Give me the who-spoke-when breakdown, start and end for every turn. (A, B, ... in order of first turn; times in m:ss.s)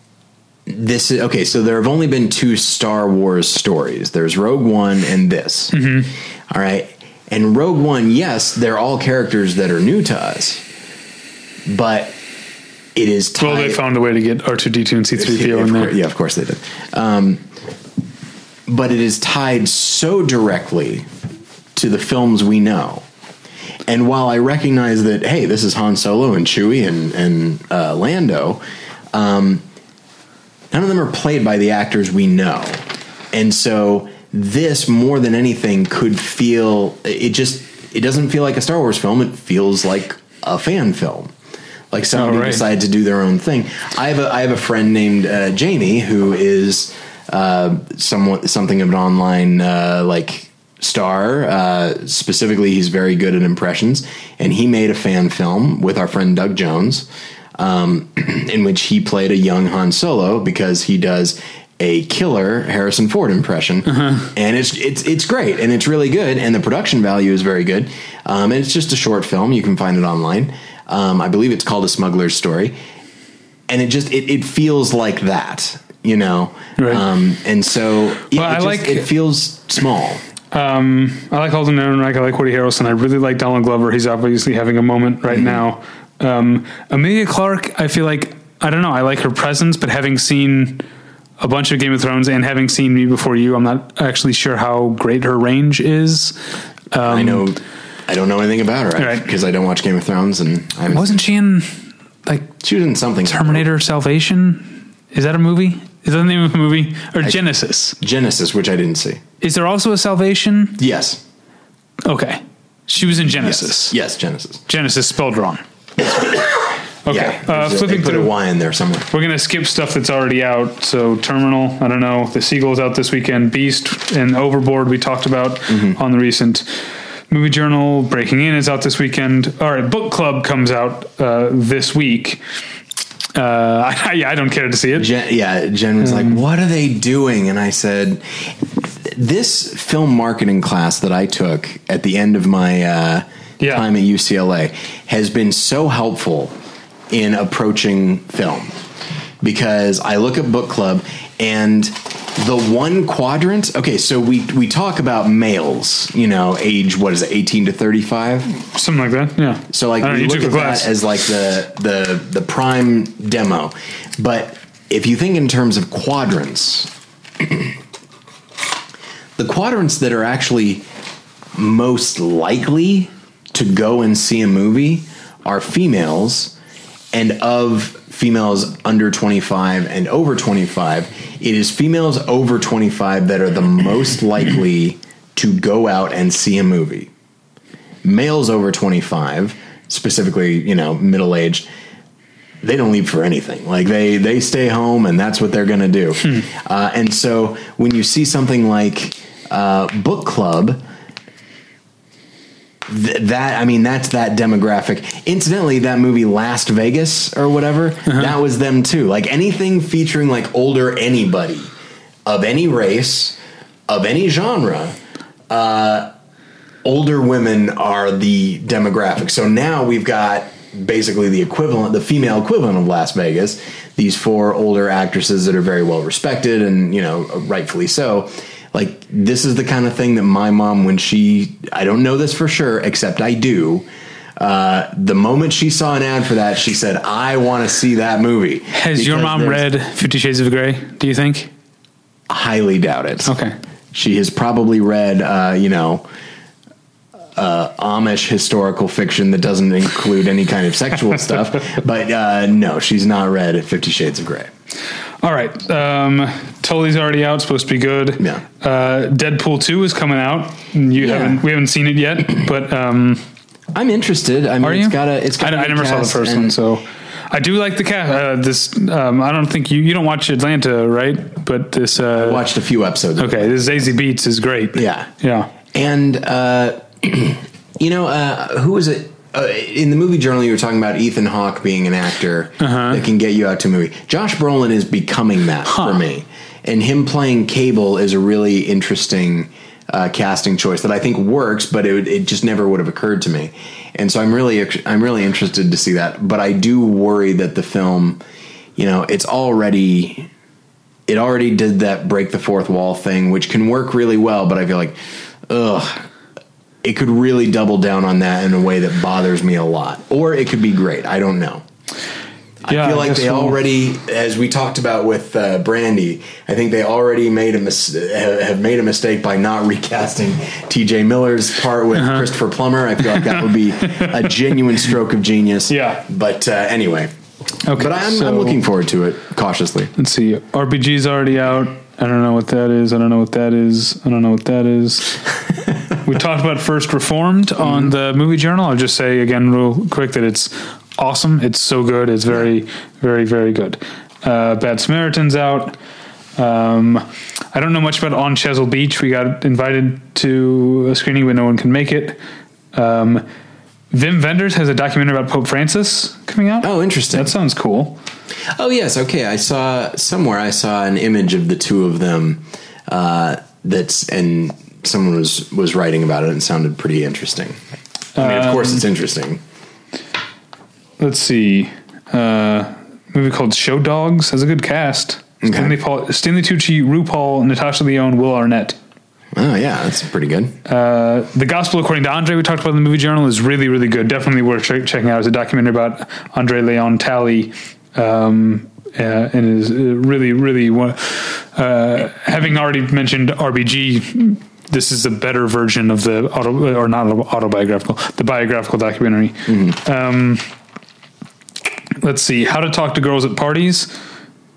0:00.7-0:05.7 A
0:05.7-0:06.1 B
0:06.5-0:10.6 A
0:11.7-0:12.2 A
0:12.9-0:13.8 A
0:13.4-0:16.0 B
0:15.2-0:17.4 A
0:18.7-0:21.1 A
0:21.7-0:23.0 A
0:23.8-0:28.6 A
0:29.1-0:29.6 A
0:30.7-0:41.3 A
0:41.9-1:12.7 A
0:42.1-0:42.6 B
1:03.9-1:04.3 B
1:13.7-1:20.2 A
1:16.8-1:17.0 B
1:18.3-1:19.1 B
1:20.5-1:30.8 B
1:25.3-1:25.6 A
1:31.4-1:36.4 B
1:36.9-1:37.4 B
1:37.0-1:41.2 A
1:39.0-1:39.2 B
1:40.9-1:42.5 B
1:42.6-1:43.7 A
1:43.3-1:48.0 B
1:48.0-1:49.2 A
1:49.4-1:50.8 B
1:50.8-1:51.2 A
1:52.0-1:53.9 B
1:53.3-1:54.6 A
1:54.7-1:55.6 B
1:57.0-1:58.3 B
1:57.1-1:59.1 A
1:59.1-2:12.4 B
2:05.7-2:06.0 A
2:13.3-2:15.1 B
2:15.0-2:26.6 A
2:16.0-2:16.4 B
2:23.6-2:23.8 B
2:27.1-2:28.8 A
2:29.4-2:38.5 A
2:38.6-2:40.9 B
2:39.7-2:47.7 A
2:49.4-2:50.8 A
2:51.5-2:56.5 A
2:57.1-3:07.1 A
3:08.0-3:11.6 A
3:12.6-3:20.8 A
3:22.8-3:31.7 A
3:28.0-3:28.3 B
3:32.2-3:33.4 A
3:33.9-3:35.0 A
3:35.5-3:36.1 A
3:36.8-3:59.7 A
3:58.7-4:01.5 B
4:02.3-4:03.3 A
4:03.2-4:03.6 B
4:03.9-4:06.0 A
4:07.3-4:14.5 A
4:15.2-4:23.2 B
4:21.0-4:21.4 A
4:23.7-4:26.5 A
4:24.6-4:32.4 B
4:32.1-4:33.5 A
4:33.2-4:35.5 B
4:34.7-4:35.1 A
4:35.6-4:58.2 A
4:42.6-4:43.0 B
4:45.6-4:46.0 B
4:58.8-5:00.3 A
5:01.1-5:05.0 A
5:05.5-5:06.1 A
5:06.8-5:11.6 A
5:12.6-5:27.1 A
5:12.7-5:13.6 B
5:22.0-5:22.3 B
5:23.8-5:24.2 B
5:25.7-5:26.0 B
5:27.6-5:28.6 B
5:27.8-5:29.9 A
5:30.0-5:35.2 B
5:36.0-5:45.8 B
5:37.6-5:37.9 A
5:46.4-5:52.2 B
5:52.7-5:53.2 B
5:53.9-5:58.0 B
5:56.6-5:57.3 A
5:58.5-6:07.6 A
6:08.2-6:08.8 B
6:08.2-6:09.4 A
6:11.0-6:18.8 B
6:15.4-6:15.8 A
6:19.3-6:20.5 A
6:20.6-6:40.5 B
6:39.5-6:39.8 A
6:42.0-6:43.9 B